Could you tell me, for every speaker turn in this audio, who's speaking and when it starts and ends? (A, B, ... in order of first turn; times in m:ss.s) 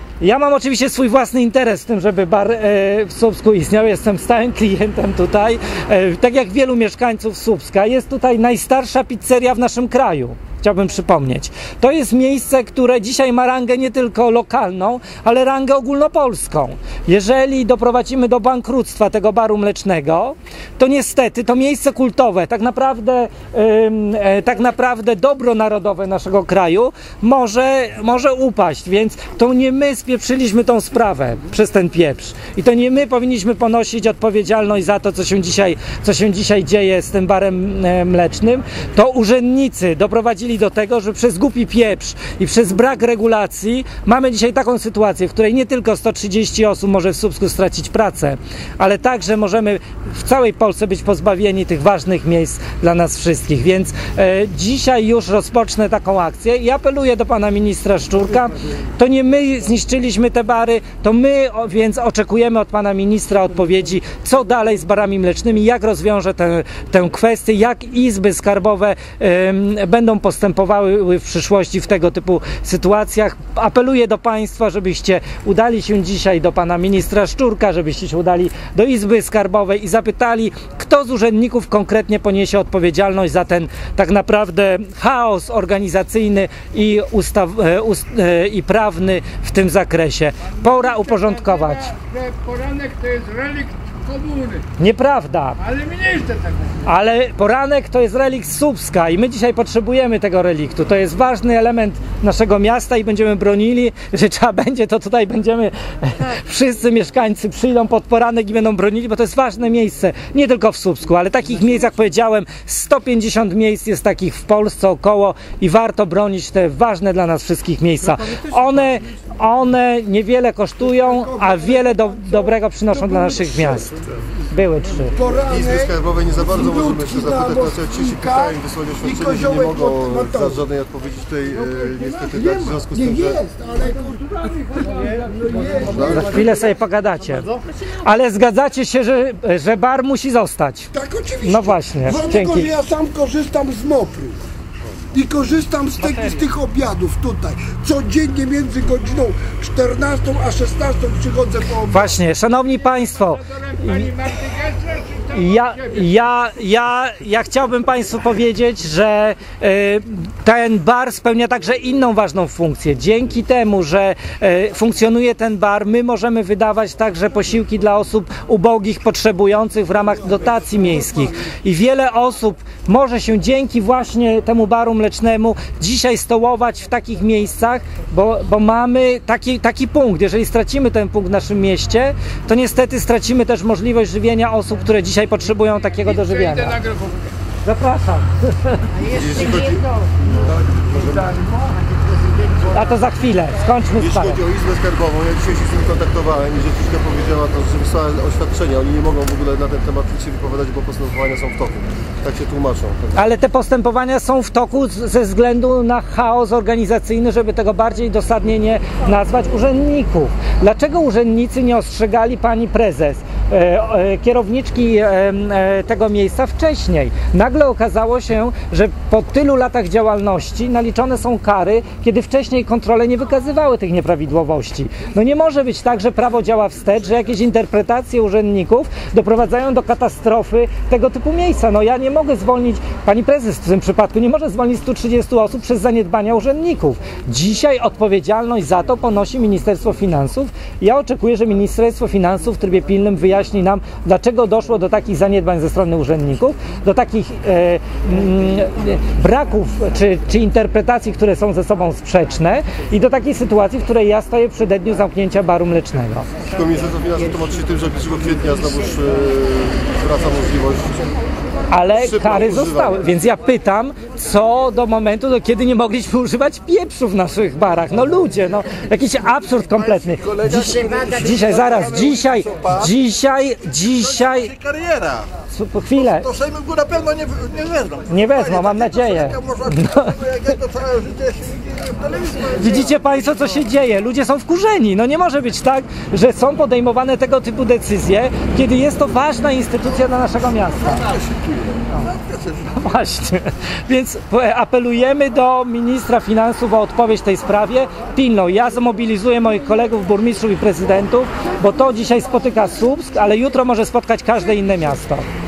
0:00.2-1:32.0 A
1:31.9-1:34.6 B
1:34.8-1:35.7 A
1:35.7-1:36.7 B
1:36.8-2:05.2 A
2:01.3-2:03.8 C
2:05.1-2:06.0 C
2:05.5-2:13.4 D
2:06.5-2:10.6 C
2:12.3-2:16.4 C
2:15.8-2:16.3 D
2:16.0-2:20.9 A
2:20.9-2:24.4 C
2:21.4-2:22.7 A
2:25.1-2:32.1 C
2:31.9-2:34.4 A
2:34.3-2:35.2 B
2:35.2-3:06.9 A
3:06.8-3:07.1 B
3:07.6-3:09.0 A
3:09.0-3:11.4 D
3:12.7-3:14.4 A
3:14.0-3:23.2 D
3:23.1-4:16.3 A
4:16.5-4:21.0 D
4:21.7-4:34.6 A
4:22.0-4:23.0 D
4:34.9-4:35.2 E
4:35.5-4:36.3 A
4:36.4-4:38.0 E
4:38.0-4:40.4 A
4:40.6-4:42.4 E
4:42.4-4:51.1 A
4:52.6-5:05.3 A